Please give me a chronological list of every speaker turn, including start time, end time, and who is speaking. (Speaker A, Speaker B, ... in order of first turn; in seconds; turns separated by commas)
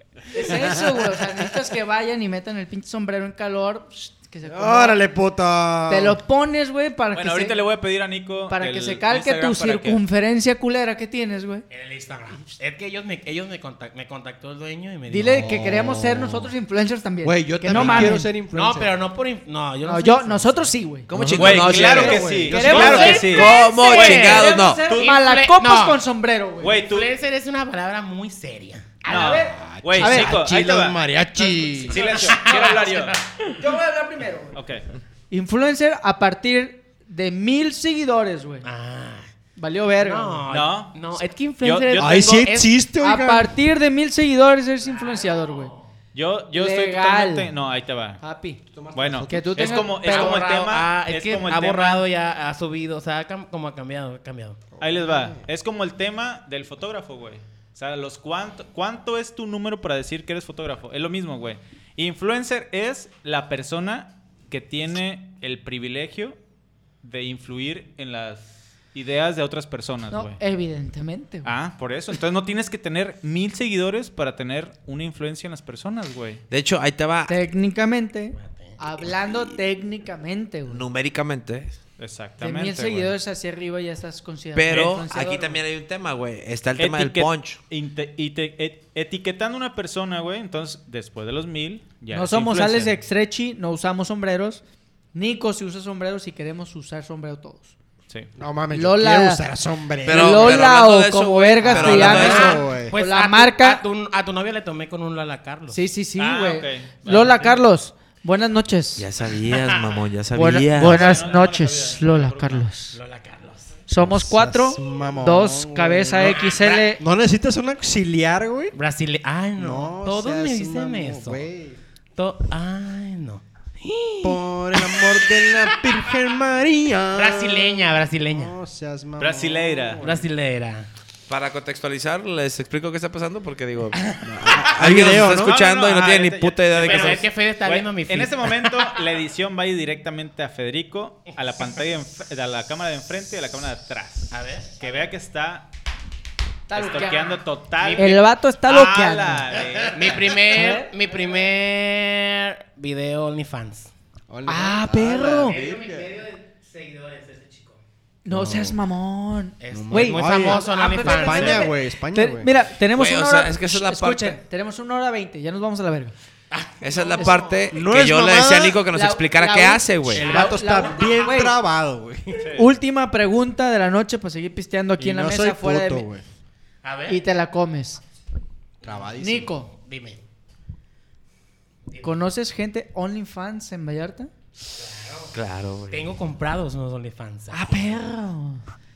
Speaker A: 0.3-5.0, Speaker B: 4.4-6.2, Speaker A: 5.9-7.6, Speaker C: 7.1-10.0, Speaker A: 8.5-11.7, Speaker D: 11.7-15.5, Speaker A: 15.1-18.3, Speaker B: 15.3-16.5, Speaker B: 17.2-19.0, Speaker C: 17.7-18.1, Speaker D: 17.8-20.7, Speaker A: 19.8-21.1, Speaker E: 21.1-24.9, Speaker B: 21.1-22.9, Speaker C: 21.4-25.2, Speaker A: 21.8-26.8, Speaker D: 22.6-26.0, Speaker C: 26.6-27.1, Speaker D: 26.7-29.0, Speaker A: 29.0-30.4, Speaker C: 29.1-31.1, Speaker B: 29.5-32.1, Speaker D: 31.5-33.5, Speaker C: 31.8-33.2, Speaker A: 32.2-32.8, Speaker A: 33.6-34.6, Speaker C: 34.5-34.8, Speaker A: 35.3-38.7, Speaker D: 38.6-39.3, Speaker A: 39.6-40.5, Speaker D: 40.0-42.7, Speaker C: 40.5-42.5, Speaker B: 41.9-43.5, Speaker A: 43.0-45.7, Speaker D: 44.8-45.9, Speaker C: 46.1-48.2, Speaker A: 46.5-47.5, Speaker A: 48.2-48.6, Speaker B: 48.7-50.0, Speaker C: 48.9-52.0, Speaker A: 49.3-50.4, Speaker D: 50.0-54.7, Speaker B: 54.8-55.4, Speaker C: 54.8-66.4, Speaker C: 67.0-70.4, Speaker A: 70.1-71.5, Speaker C: 71.4-76.4, Speaker E: 76.5-77.4, Speaker A: 77.3-80.8, Speaker D: 78.3-78.8, Speaker E: 80.7-81.8, Speaker C: 82.0-83.1, Speaker A: 82.4-85.6, Speaker E: 84.5-87.6, Speaker C: 84.7-85.0, Speaker C: 86.8-92.9, Speaker A: 92.1-94.6, Speaker A: 95.1-97.7, Speaker B: 98.4-100.7, Speaker A: 98.7-99.4, Speaker E: 100.0-102.6, Speaker A: 100.0-103.8, Speaker B: 101.6-103.0, Speaker D: 102.2-105.8, Speaker A: 105.7-109.0, Speaker C: 106.2-107.5, Speaker E: 109.0-111.1, Speaker D: 109.3-110.0, Speaker A: 110.3-113.0, Speaker C: 110.8-112.7, Speaker D: 112.9-113.8, Speaker A: 113.9-117.0, Speaker B: 114.0-118.7, Speaker D: 116.2-116.9, Speaker D: 118.7-121.5, Speaker B: 119.6-121.8, Speaker D: 122.2-126.0, Speaker B: 124.2-130.3, Speaker D: 127.1-128.5, Speaker C: 129.2-130.0, Speaker D: 130.0-130.9, Speaker E: 131.3-134.0, Speaker D: 133.9-135.0, Speaker B: 134.2-135.5, Speaker E: 134.6-137.2, Speaker C: 135.0-145.7, Speaker D: 136.8-138.9, Speaker D: 144.3-145.1, Speaker A: 146.7-147.4, Speaker C: 146.7-150.5, Speaker D: 146.9-147.2, Speaker D: 147.8-148.2, Speaker A: 147.9-149.6, Speaker D: 149.8-153.9, Speaker A: 150.4-150.9, Speaker B: 154.3-156.1, Speaker A: 154.5-155.6, Speaker D: 155.4-157.8, Speaker A: 158.2-166.1, Speaker B: 158.3-158.8, Speaker D: 159.6-161.7, Speaker B: 159.7-162.5, Speaker E: 162.9-164.4, Speaker D: 166.5-167.7, Speaker E: 166.8-170.3, Speaker B: 167.7-168.8, Speaker A: 168.9-171.6, Speaker B: 170.1-172.5, Speaker C: 172.4-172.7, Speaker A: 172.5-176.1, Speaker B: 175.0-176.2, Speaker D: 176.8-177.2, Speaker A: 177.1-178.0, Speaker D: 178.8-179.1, Speaker B: 178.8-179.5, Speaker A: 179.2-179.7, Speaker D: 179.7-180.2, Speaker D: 181.8-182.2, Speaker A: 182.0-184.3, Speaker D: 184.7-185.3, Speaker E: 185.3-186.1, Speaker D: 185.9-188.0, Speaker A: 187.5-188.6